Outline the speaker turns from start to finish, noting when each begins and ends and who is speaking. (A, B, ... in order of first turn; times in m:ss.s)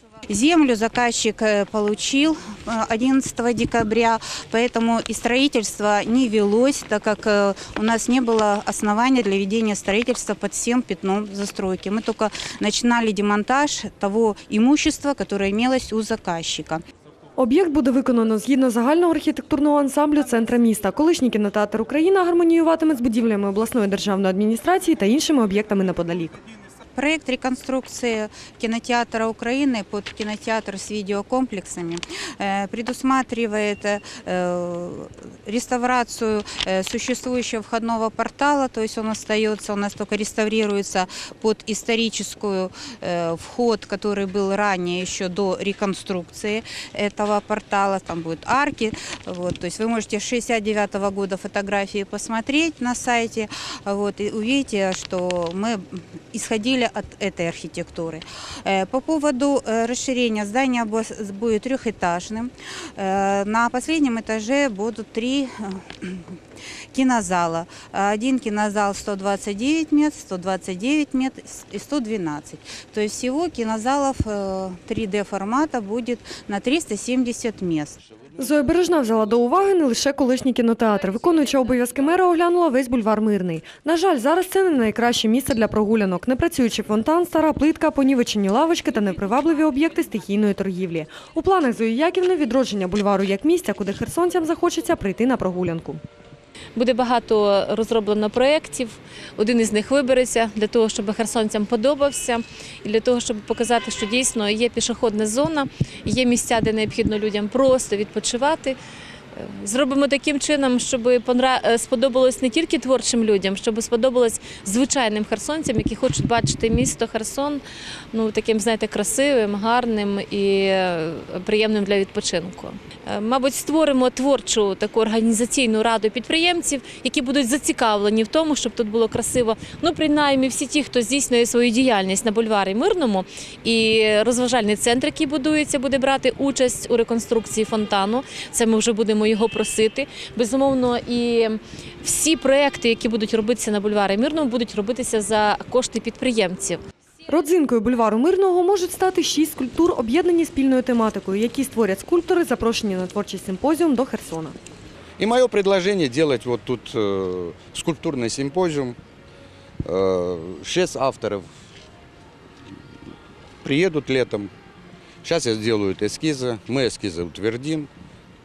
0:00.3-0:16.8 A
0:17.4-0:26.4 B
0:27.0-1:06.2 A
1:06.9-1:18.0 A
1:18.4-1:36.0 B
1:36.8-1:48.8 C
1:49.3-2:26.8 C
2:27.3-2:34.6 B
2:35.2-2:39.0 D
2:39.8-2:41.5 D
2:43.6-2:44.5 D
2:45.2-2:47.9 D